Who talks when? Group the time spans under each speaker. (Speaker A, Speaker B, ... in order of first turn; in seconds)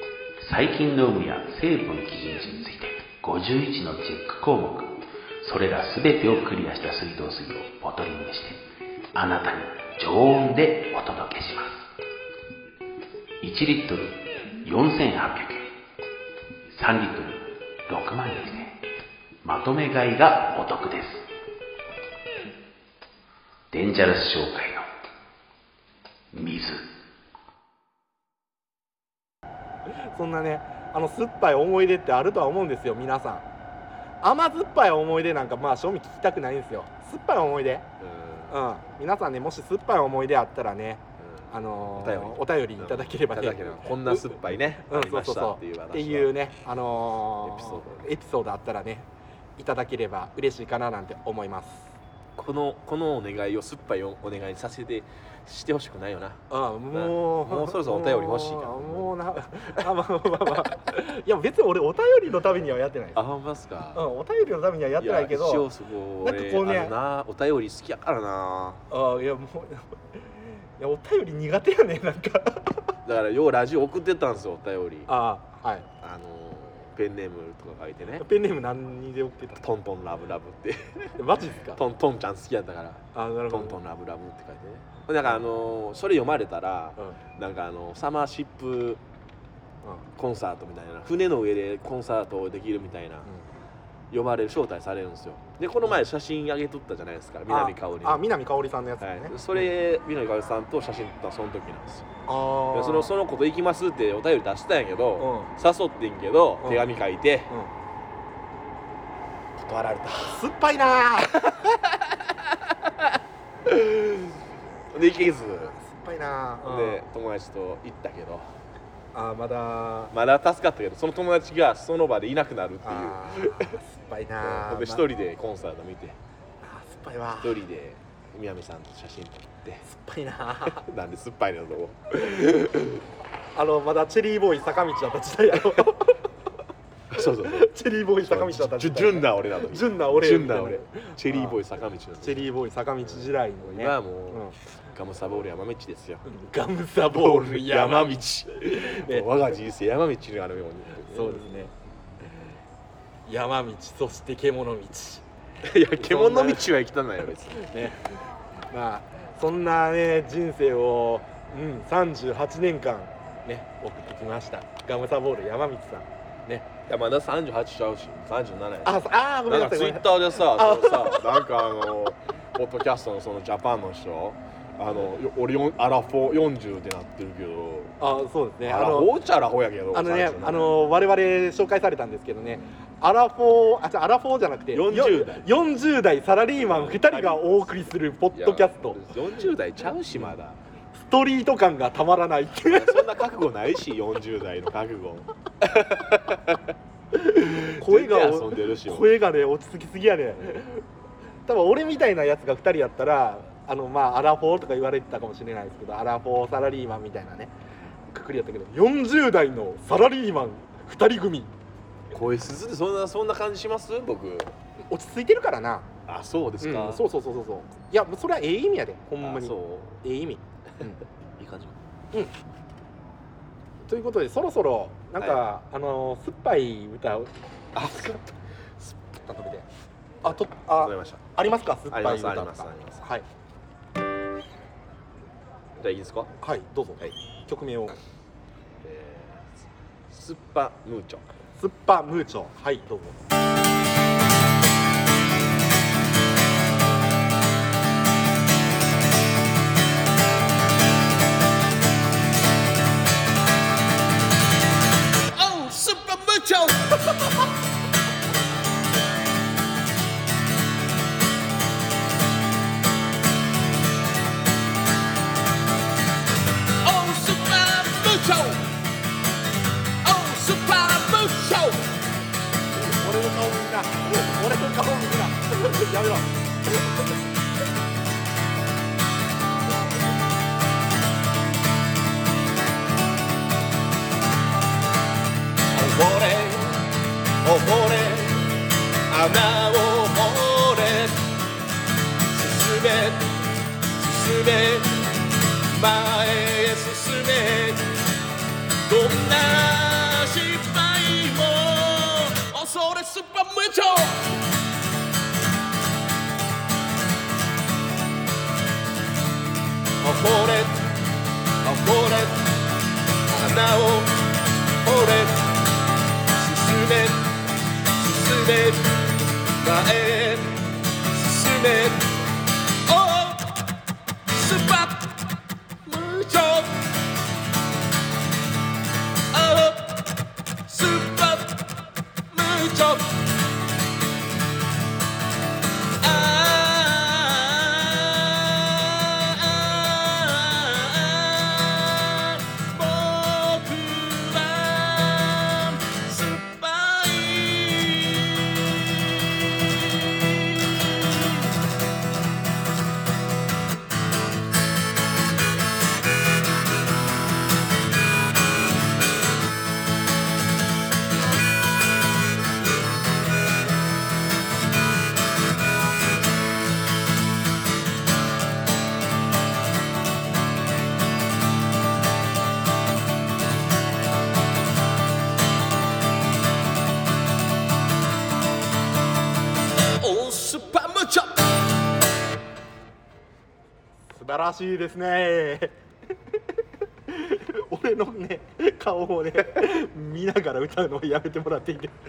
Speaker A: 0.4-8.6, 9.1-11.9, 13.4-15.7, 16.7-18.8, 19.4-21.2, 23.7-24.9, 26.3-26.9
Speaker B: 30.1-33.4, 34.2-37.9, 38.5-52.0, 56.5-63.2, 63.9-67.0, 68.9-69.8, 70.8-72.8, 75.1-75.9, 78.2-79.6, 81.2-81.8, 83.1-83.8, 97.5-99.7, 102.2-103.1, 105.2-105.5, 106.6-107.0, 110.3-111.7, 115.6-117.0, 119.1-120.1, 122.8-125.1, 126.6-127.6, 129.8-130.8, 133.5-136.2, 137.2-141.6, 142.2-144.6, 146.2-149.4, 151.0-151.7, 153.2-155.2, 155.9-156.7, 157.5-158.2, 158.7-166.7, 168.8-171.4, 178.0-179.2, 179.9-189.0, 191.0-193.1, 197.1-200.8, 201.4-207.5, 208.1-211.5, 214.9-215.9, 216.6-221.0, 223.9-228.2, 229.1-229.7, 230.2-233.2, 236.4-238.0, 241.6-243.2, 272.8-276.9, 384.1-385.7, 387.1-391.9
Speaker C: 38.0-38.5, 42.0-46.3, 47.5-48.0, 52.4-56.4, 56.9-59.1, 63.1-64.0, 65.0-68.8, 73.0-75.1, 76.0-78.2, 79.6-81.1, 81.8-89.0, 90.2-93.2, 94.1-98.2, 99.0-102.0, 102.7-107.5, 109.6-110.3, 113.7-114.2, 114.9-115.7, 116.6-118.5, 120.1-123.4, 124.4-126.2, 127.4-129.8, 130.9-132.1, 137.2-137.5, 138.3-142.3, 143.6-144.4, 144.9-146.2, 147.2-148.6, 149.1-151.3, 155.7-157.6, 166.9-168.9, 169.5-177.9, 178.6-180.7, 184.7-185.4, 186.7-187.6, 188.3-190.6, 192.7-195.2, 197.9-199.0, 212.1-214.5, 216.1-217.0, 219.2-219.9, 221.4-221.7, 230.8-231.2, 231.9-233.0, 235.8-236.3, 238.8-239.4, 240.1-241.2, 255.2-257.0, 266.8-268.8, 270.0-272.0, 285.7-286.9, 287.4-291.3, 292.3-293.4, 294.0-298.0, 298.9-304.4, 310.0-310.9, 311.6-312.6, 313.3-315.6, 316.3-317.4, 318.0-322.2, 322.9-323.7, 324.3-325.2, 325.9-326.9, 329.3-331.8, 332.3-333.3, 336.0-349.0, 349.6-351.5, 380.0-381.6